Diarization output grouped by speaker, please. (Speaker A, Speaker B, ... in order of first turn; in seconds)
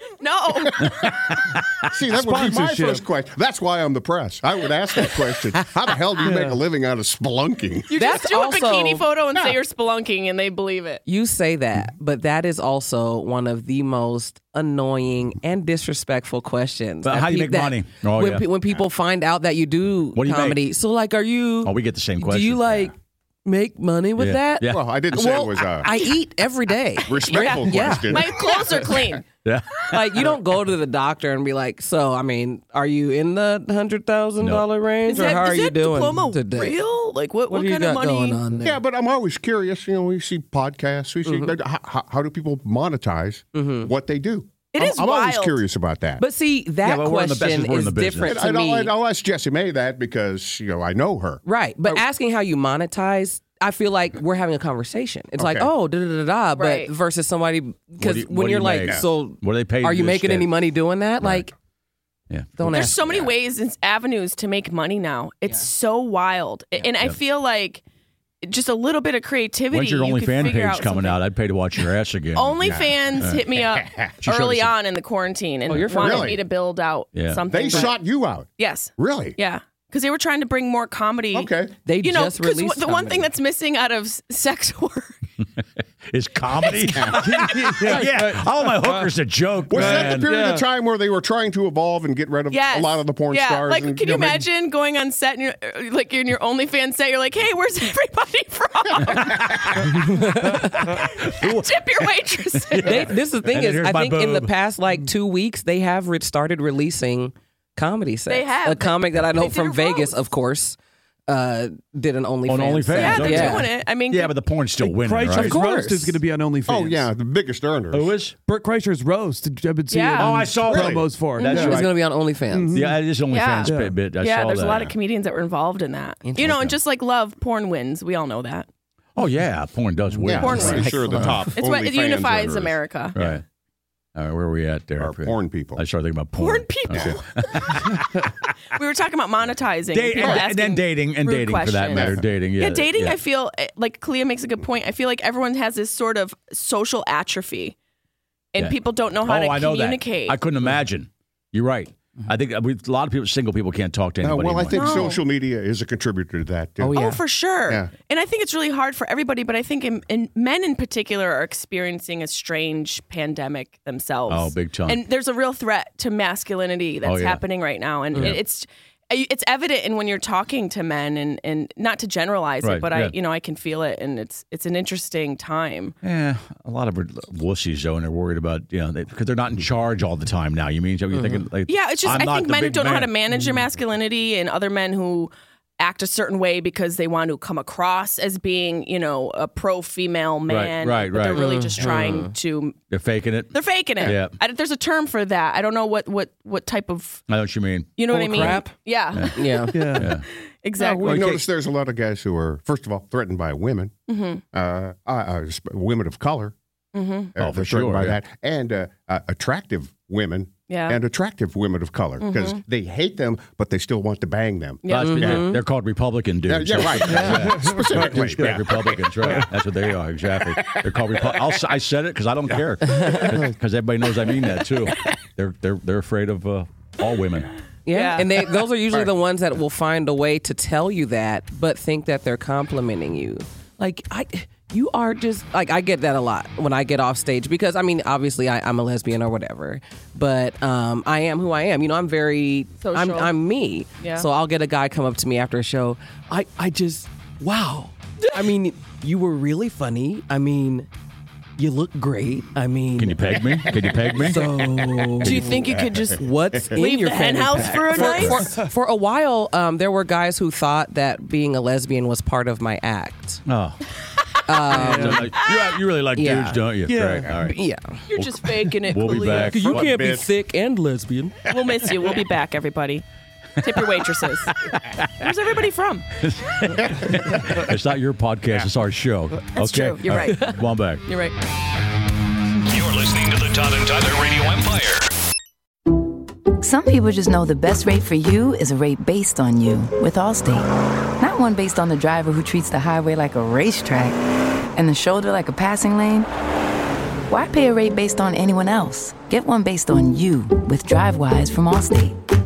Speaker A: 0.2-0.9, 7.9-11.0, 27.1-29.3, 35.1-38.4, 44.7-45.6, 56.6-56.9, 62.7-67.8, 68.4-71.2, 72.4-78.0, 78.6-85.1, 92.5-100.0, 100.9-103.1, 108.3-110.1, 113.0-114.3, 119.9-120.3, 121.4-121.8, 123.3-128.7, 130.4-133.2, 136.4-137.9, 138.7-147.8, 148.5-150.4, 154.7-155.2, 156.9-175.9, 181.7-192.8, 193.5-197.2, 198.0-199.7, 200.6-201.3, 204.1-204.4, 206.9-207.3, 210.7-211.0, 212.2-212.6, 214.8-215.4, 227.9-228.6, 242.8-243.3, 244.0-244.3, 255.2-258.5, 268.1-269.6, 271.5-273.1, 273.6-274.6, 275.2-276.1, 279.6-281.4
Speaker B: 0.9-1.9, 17.0-18.5, 20.2-20.6, 21.6-22.9, 24.2-24.8, 29.4-30.4, 34.4-34.7, 46.8-48.4, 58.0-60.5, 61.2-61.5, 62.3-63.0, 69.7-73.5, 74.2-74.7, 77.1-77.4, 86.1-90.4, 100.5-102.1, 102.6-104.5, 112.5-115.6, 117.9-118.4, 120.2-121.0, 122.7-124.9, 129.2-131.4, 133.2-133.4, 134.2-138.3, 139.9-143.2, 148.6-155.1, 164.3-165.0, 167.0-167.4, 168.1-168.4, 172.6-173.1, 176.0-183.1, 190.5-192.2, 192.9-194.4, 197.3-198.6, 199.1-200.3, 201.0-201.4, 207.4-208.2, 214.9-227.5, 253.0-254.5, 258.0-258.4, 263.5-263.8, 264.7-267.6, 268.1-270.1, 274.6-275.3, 276.2-281.1
Speaker C: 1.9-7.9, 24.7-25.9, 27.1-29.0, 38.6-46.2, 48.2-51.4, 55.4-55.7, 72.6-74.1, 75.8-76.4, 77.5-79.4, 81.3-81.7, 86.9-88.1, 89.7-94.4, 116.7-118.2, 120.6-121.8, 130.2-133.4, 135.0-135.8, 136.9-137.2, 140.2-140.4, 141.9-142.2, 154.2-157.1, 200.8-203.9, 204.5-206.6, 207.4-215.5, 216.5-219.5, 220.7-221.5, 253.6-256.8, 269.4-270.3
Speaker D: 2.1-3.0, 6.2-6.6, 87.2-89.2, 89.7-90.7, 114.8-117.1, 118.5-121.9, 122.5-123.0, 123.7-124.0, 198.1-198.7, 199.7-200.2, 217.0-218.6, 264.8-265.2, 266.9-267.5
Speaker E: 7.9-9.5, 11.1-22.9, 23.4-28.2, 29.9-36.8, 37.5-38.8, 41.2-41.5, 43.5-43.9, 46.2-48.9, 51.5-61.5, 62.6-63.3, 75.7-76.4, 81.9-83.3, 100.0-100.8, 102.8-113.7, 115.3-116.2, 121.5-122.7, 126.2-126.7, 130.5-131.4, 156.8-157.2, 181.1-181.4, 191.3-192.3, 198.4-198.7, 199.3-199.9, 214.9-215.6, 222.9-223.2, 227.9-250.9, 251.6-253.5, 254.2-255.6, 256.1-263.4, 264.5-265.3, 266.1-268.0, 269.3-271.4
Speaker F: 282.7-285.1
Speaker G: 286.6-290.7, 291.2-294.2, 294.8-296.3, 297.3-302.1